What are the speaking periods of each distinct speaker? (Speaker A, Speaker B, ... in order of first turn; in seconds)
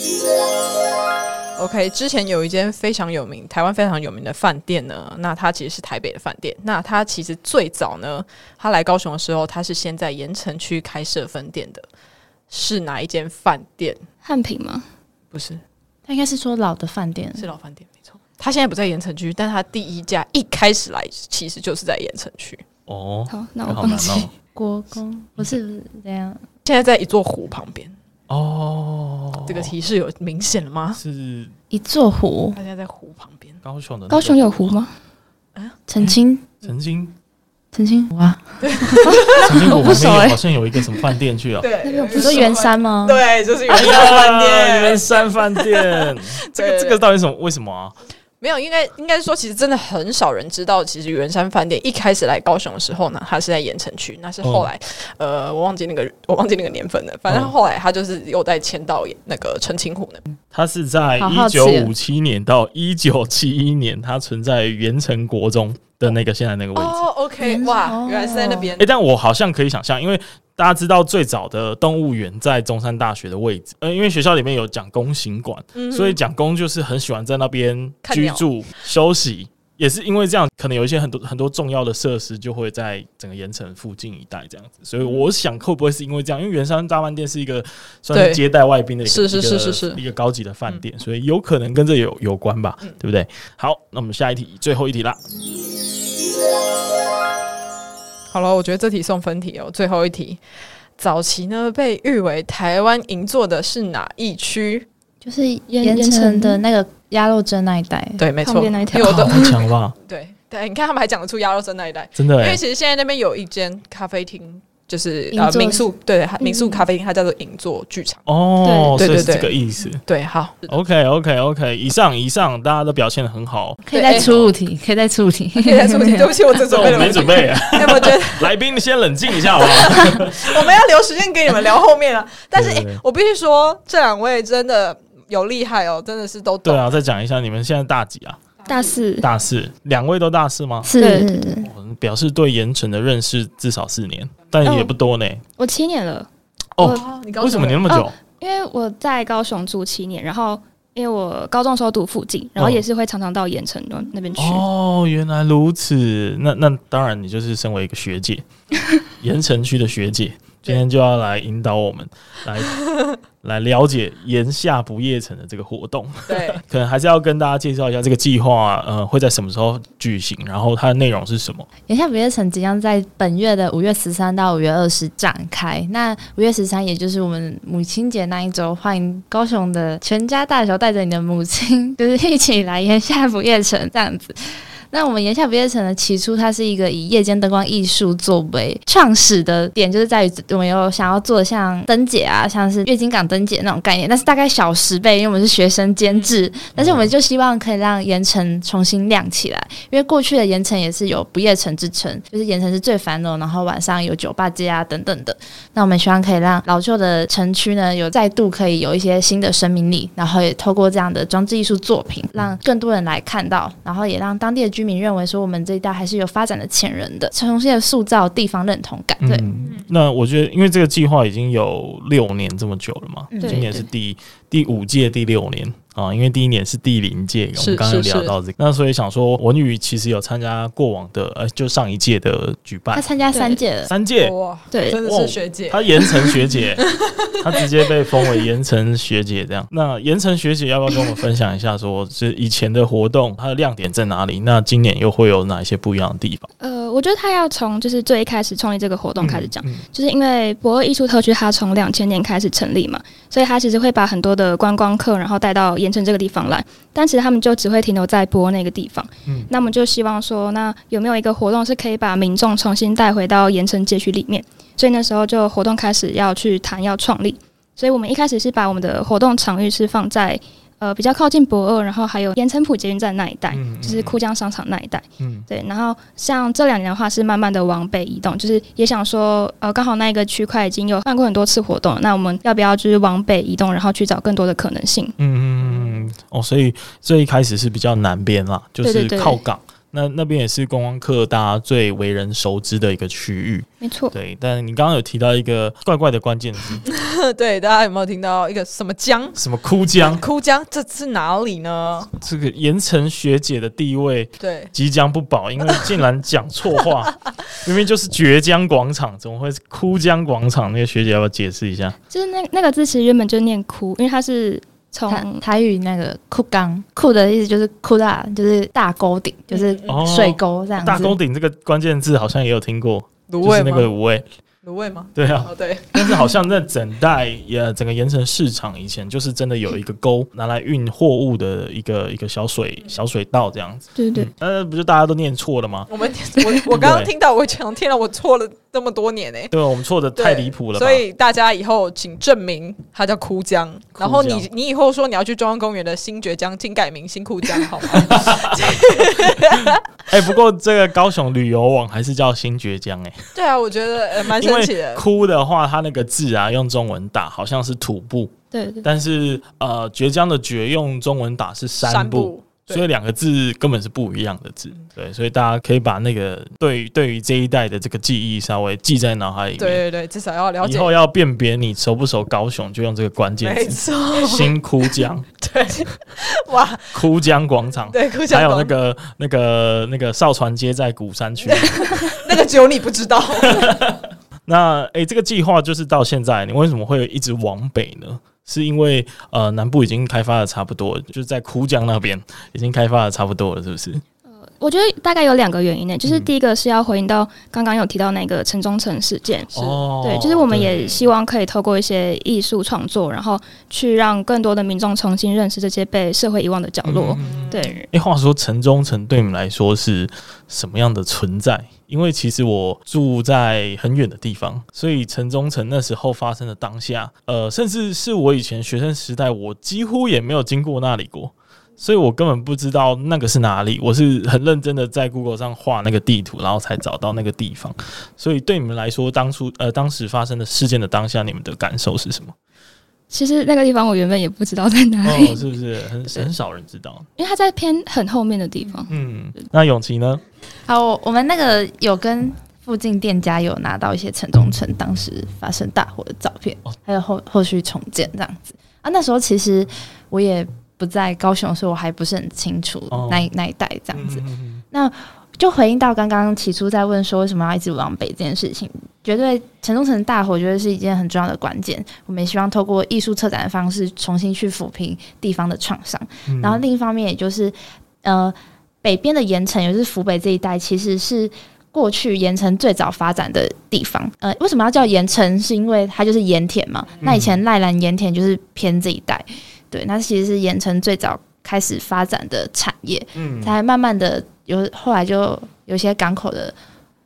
Speaker A: 1.6-11.9, 12.5-14.0, 15.3-15.6, 17.4-22.6, 26.6-27.9, 29.5-31.0, 32.5-33.6, 38.6-39.6, 41.6-47.0, 48.4-60.2, 66.8-68.9, 75.8-76.2, 78.0-78.5, 85.0-85.3, 88.1-88.4, 89.0-90.0, 98.3-100.4, 101.0-104.9, 108.2-118.2, 119.0-119.5, 120.1-120.7, 123.9-124.3, 125.6-128.6, 129.4-136.9, 146.8-147.9, 162.8-163.1, 166.3-166.6, 227.6-228.3, 234.2-236.0, 296.9-299.4, 300.1-302.1, 304.4-304.7, 319.5-319.9, 323.3-323.9, 324.6-325.9, 335.9-339.5, 340.2-349.8, 353.4-355.0, 361.8-362.9, 369.6-370.9, 373.4-374.9, 375.4-377.0, 377.9-378.7, 381.4-383.8, 407.2-407.8
Speaker B: 14.2-14.8, 23.3-24.3, 34.1-34.9, 39.1-40.4, 41.8-42.6, 105.7-106.6, 108.5-109.6, 118.6-119.0, 138.7-139.2, 141.0-141.3, 144.7-144.9, 145.6-146.3, 147.9-154.6, 223.4-223.8, 233.3-233.6, 234.7-235.0, 246.6-285.1, 288.8-289.4, 293.8-294.1, 312.1-315.4, 334.0-334.3, 358.5-358.9, 394.6-407.9, 433.1-435.4, 437.2-438.9
Speaker C: 16.1-17.5, 24.6-26.4, 31.7-32.6, 35.9-36.5, 37.7-39.1, 42.1-43.2, 61.2-61.9, 67.4-68.7, 105.2-108.2, 115.3-115.9, 116.4-116.8, 123.8-126.4, 140.8-141.7, 171.9-219.4, 223.3-223.7, 232.9-233.9, 315.1-321.2, 440.7-486.6
Speaker D: 22.9-24.3, 28.3-29.7, 30.9-31.5, 33.6-34.6, 36.6-37.1, 39.4-41.7, 43.7-48.0, 54.4-54.7, 57.3-57.5, 60.5-67.0, 68.8-95.2, 108.9-110.0, 112.2-112.6, 118.3-120.0, 120.7-124.5, 126.7-130.6, 132.5-133.0, 136.7-138.4, 139.2-140.9, 141.6-145.4, 146.8-148.2, 152.6-152.8, 154.4-158.4, 159.2-162.8, 163.4-171.7, 196.8-197.1, 219.2-233.1, 233.8-234.3, 235.0-246.5, 249.2-249.8, 259.3-259.5, 273.5-274.2, 275.2-275.5, 285.2-296.9, 299.4-300.2, 302.2-312.0, 319.9-324.3, 325.1-335.9, 336.7-337.1, 339.5-341.0, 344.0-344.5, 347.9-353.2, 354.4-369.8, 370.6-375.3, 376.9-382.2, 383.4-394.0, 396.0-396.3, 399.5-401.0, 406.8-432.4, 435.0-437.1, 438.9-440.2, 452.9-453.3, 453.9-454.6, 466.3-466.6, 477.0-477.4, 483.1-483.6